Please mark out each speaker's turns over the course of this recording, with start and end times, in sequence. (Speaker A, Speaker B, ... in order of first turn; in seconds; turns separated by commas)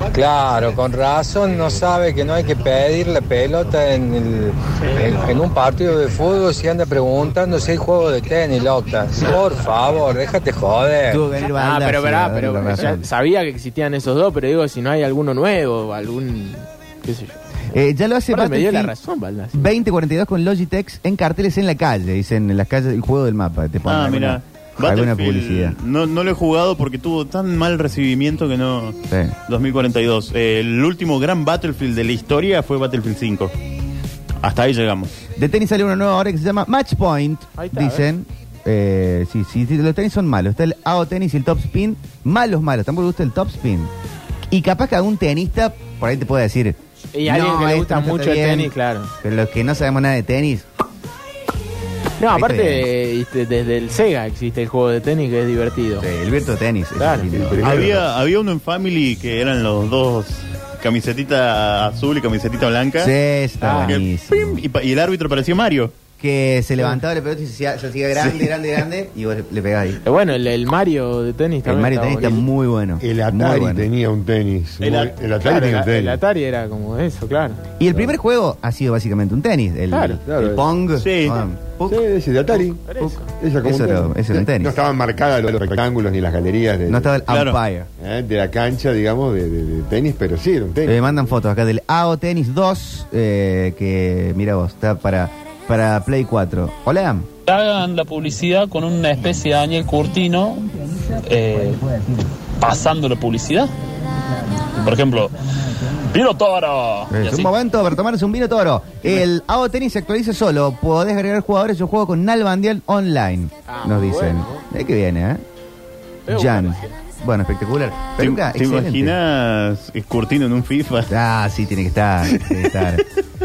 Speaker A: 0.1-11.2, Speaker B: 11.1-13.1, Speaker C: 11.4-17.7, Speaker B: 17.7-18.9, Speaker C: 18.3-19.8, Speaker B: 19.5-25.8, Speaker D: 23.9-33.5, Speaker B: 29.1-29.4, Speaker D: 34.4-35.3, Speaker B: 35.4-43.9, Speaker C: 37.6-38.1, Speaker B: 44.5-50.6, Speaker C: 47.1-49.1, Speaker C: 52.2-56.1, Speaker B: 52.3-52.9, Speaker B: 56.0-58.0, Speaker C: 57.0-57.3, Speaker E: 57.3-58.1, Speaker D: 57.6-63.1, Speaker B: 63.0-64.6, Speaker C: 63.6-64.0, Speaker D: 63.8-66.0, Speaker B: 66.2-70.0, Speaker C: 70.0-72.5, Speaker B: 71.7-73.9, Speaker E: 73.0-76.2, Speaker D: 74.8-75.2, Speaker C: 75.4-77.6, Speaker B: 77.8-82.0, Speaker C: 79.9-80.2, Speaker E: 80.3-80.7, Speaker D: 81.0-81.4, Speaker E: 81.9-87.1, Speaker C: 82.8-83.3, Speaker B: 83.0-84.7, Speaker B: 86.9-87.9, Speaker D: 87.3-87.6, Speaker E: 88.0-91.0, Speaker B: 90.9-97.3, Speaker F: 97.5-103.7, Speaker F: 104.6-107.5, Speaker B: 107.1-115.4, Speaker C: 113.7-114.6, Speaker C: 116.3-117.0, Speaker B: 116.3-119.2, Speaker D: 118.2-121.1, Speaker B: 121.1-123.0, Speaker D: 122.3-123.0